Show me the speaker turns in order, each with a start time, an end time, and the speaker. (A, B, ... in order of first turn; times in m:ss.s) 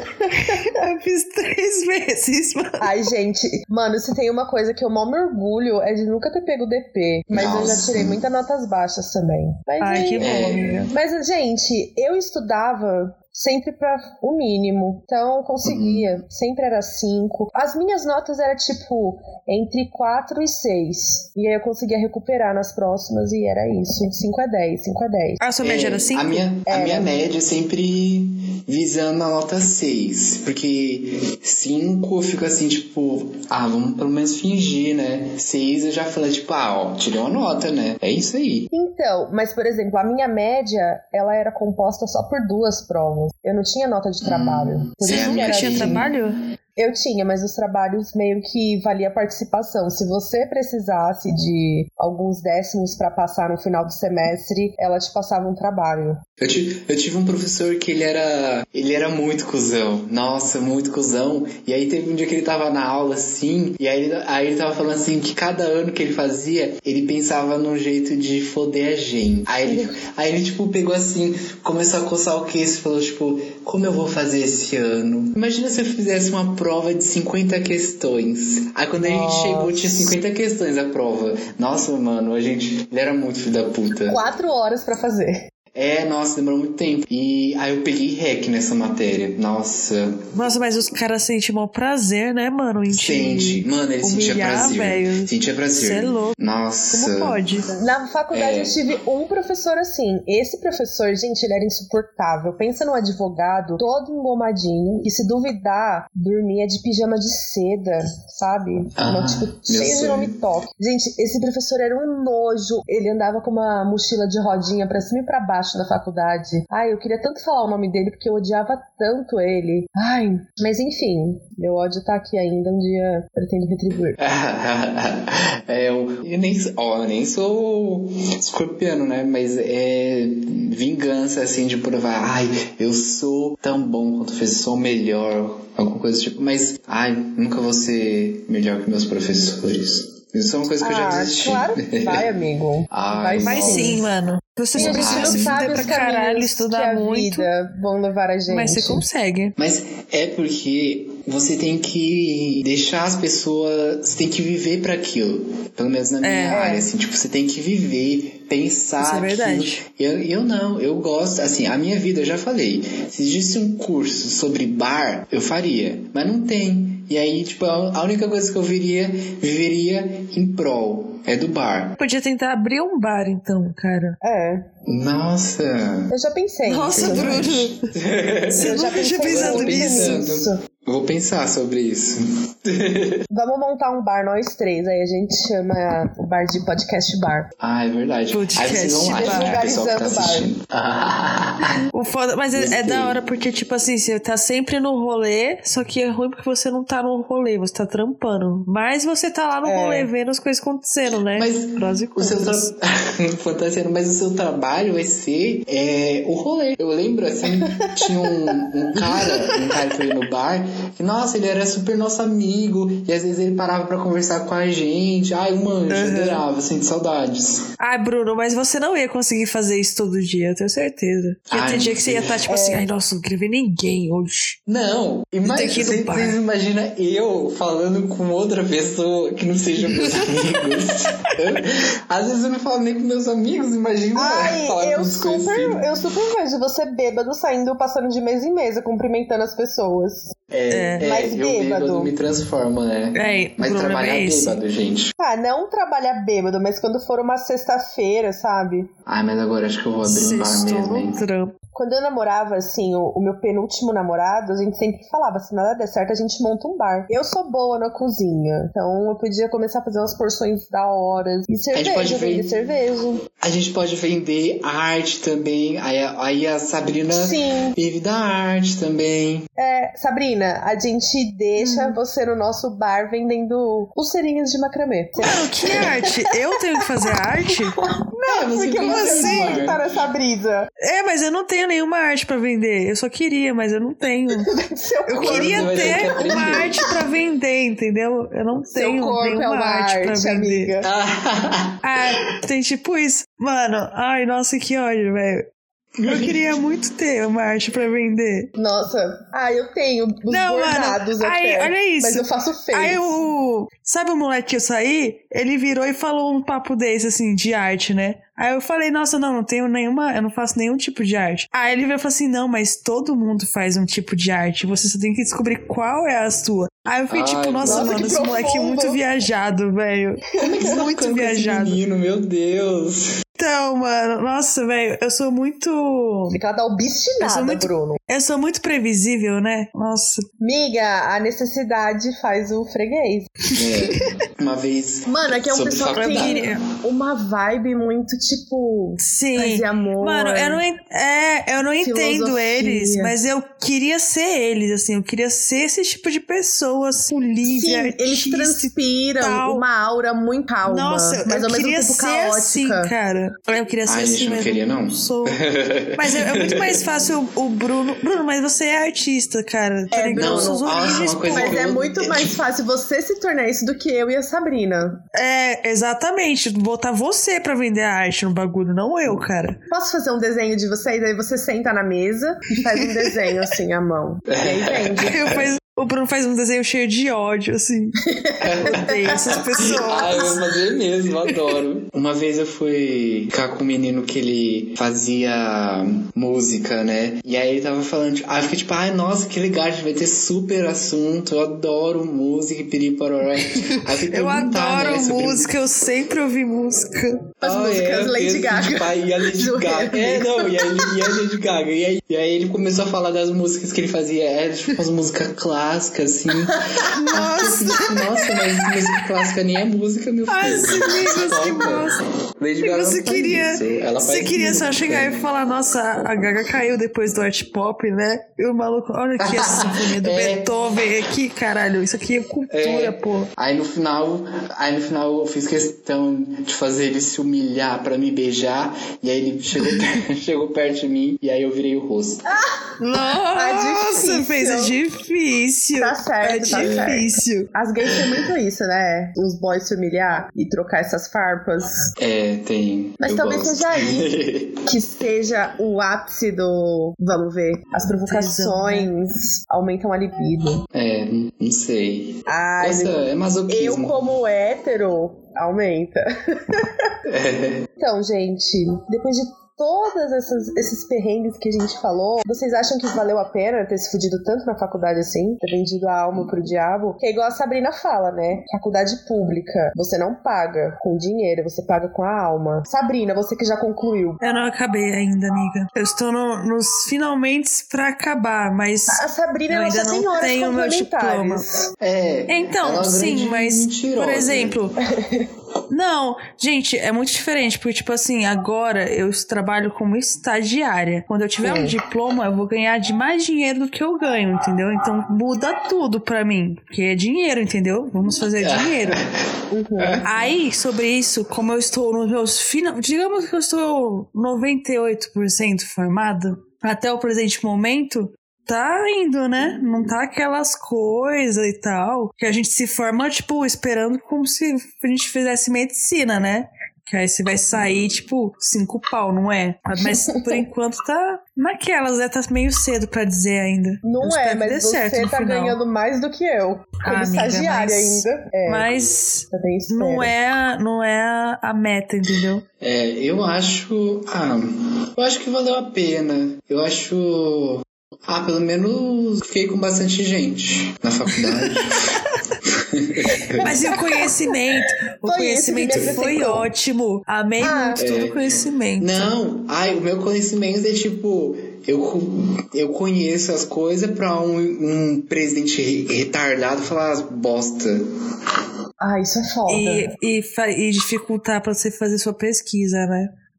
0:00.3-0:03.0 A
0:02.8-0:10.3 B
0:07.3-0:08.2 C
0:09.8-0:10.9 A
0:10.2-0:10.8 C
0:10.9-0:25.4 B
0:15.6-0:16.1 C
0:25.4-0:26.4 A
0:25.6-0:38.7 C
0:26.7-0:27.2 B
0:38.7-0:46.1 B
0:44.2-0:46.1 C
0:45.0-0:46.4 A
0:46.8-0:56.2 B
0:56.4-1:24.2 C
1:09.6-1:10.0 B
1:19.0-1:20.2 B
1:24.1-1:25.5 B
1:25.7-1:30.2 C
1:30.3-1:36.4 A
1:32.9-1:37.4 C
1:36.9-1:37.7 A
1:37.8-2:04.2 B
1:38.3-1:38.8 C
1:49.0-1:50.4 C
2:04.2-2:22.2 C
2:20.8-2:24.0 B
2:22.9-2:24.1 C
2:23.4-2:27.5 A
2:24.7-2:29.0 B
2:24.8-2:26.0 C
2:28.5-2:29.6 A
2:29.6-2:52.0 C
2:36.2-2:36.6 A
2:36.5-2:36.9 B
2:39.0-2:39.8 A
2:52.0-2:54.2 A
2:54.2-2:54.7 B
2:54.8-2:56.1 C
2:56.1-2:57.5 B
2:56.6-2:57.8 A
2:56.9-3:03.2 C
2:58.5-3:00.2 A
2:58.6-3:00.6 B
3:03.3-3:07.5 B
3:07.6-3:11.8 C
3:08.3-3:09.6 A
3:09.1-3:10.5 B
3:11.9-3:22.7 A
3:12.5-3:13.2 C
3:19.6-3:20.1 B
3:21.3-3:37.6 C
3:27.6-3:29.6 B
3:35.9-3:36.4 A
3:37.8-3:44.6 A
3:41.5-3:42.4 C
3:42.5-3:42.9 B
3:44.7-3:56.0 C
3:45.4-3:46.4 A
3:49.9-3:50.6 A
3:54.1-4:00.3 B
4:00.5-4:05.1 C
4:00.7-4:01.0 A
4:01.0-4:02.1 B
4:03.1-4:04.6 A
4:05.2-4:08.9 B
4:09.1-4:11.2 C
4:10.0-4:11.6 A
4:11.7-4:23.2 B
4:21.7-4:22.5 C
4:23.4-4:29.4 C
4:27.1-4:27.8 B
4:29.6-4:37.5 B
4:31.6-4:32.0 A
4:35.2-4:37.8 A
4:38.1-4:40.7 B
4:38.2-4:39.8 C
4:38.8-4:39.6 A
4:40.8-4:50.7 A
4:44.5-4:46.9 B
4:45.1-4:46.9 C
4:48.7-4:50.9 B
4:50.8-4:51.8 C
4:51.8-4:55.5 A
4:56.0-4:56.6 C
4:56.1-4:58.5 A
4:58.6-5:03.0 B
5:00.3-5:21.8 A
5:17.1-5:18.1 C
5:17.6-5:19.0 B
5:20.4-5:23.2 C
5:23.4-5:26.4 A
5:26.3-5:28.0 B
5:27.2-5:30.2 A
5:30.4-5:33.3 B
5:33.5-5:34.0 A
5:33.6-5:36.5 C
5:35.1-5:40.6 B
5:35.9-5:36.6 A
5:39.0-5:49.6 A
5:41.8-5:43.1 B
5:47.4-5:52.9 B
5:50.6-5:55.4 A
5:53.8-5:56.8 C
5:56.0-6:01.6 A
5:59.9-6:05.0 B
6:00.2-6:02.4 C
6:05.1-6:09.6 A
6:09.7-6:15.3 B
6:12.6-6:13.2 A
6:14.3-6:15.5 C
6:15.0-6:18.0 A
6:18.0-6:20.3 B
6:18.4-6:35.5 C
6:18.7-6:20.4 A
6:33.4-6:37.2 A
6:37.4-6:41.0 B
6:37.4-6:51.8 C
6:46.4-6:46.8 B
6:47.0-6:48.0 A
6:50.3-6:52.0 A
6:52.4-6:55.2 C
6:52.6-7:03.3 A
6:59.2-7:00.5 C
7:02.5-7:12.2 C
7:12.3-7:14.8 B
7:12.8-7:17.5 A
7:15.8-7:21.8 B
7:16.5-7:16.9 C
7:17.9-7:18.2 C
7:22.0-7:24.6 C
7:23.0-7:24.1 B
7:24.7-7:30.6 B
7:28.0-7:28.9 A
7:30.7-7:34.1 C
7:32.3-7:36.9 B
7:37.1-7:37.7 C
7:37.8-7:54.2 B
7:54.2-8:01.4 A
7:58.9-8:01.7 B
8:01.8-8:04.6 C
8:02.3-8:04.8 A
8:05.0-8:05.3 B
8:05.7-8:19.0 A
8:11.4-8:11.8 B
8:18.4-8:19.1 C
8:19.5-8:20.0 B
8:19.8-8:20.0 C
8:20.0-8:45.6 A
8:39.8-8:40.5 B
8:43.8-8:48.7 B
8:46.8-8:52.4 A
8:49.3-8:50.1 B
8:52.6-9:03.4 C
9:01.1-9:02.0 A
9:03.4-9:04.4 B
9:03.4-9:09.1 A
9:05.0-9:06.5 B
9:05.7-9:06.0 C
9:07.4-9:07.8 B
9:07.8-9:17.8 C
9:18.8-9:19.9 B
9:19.5-9:23.1 A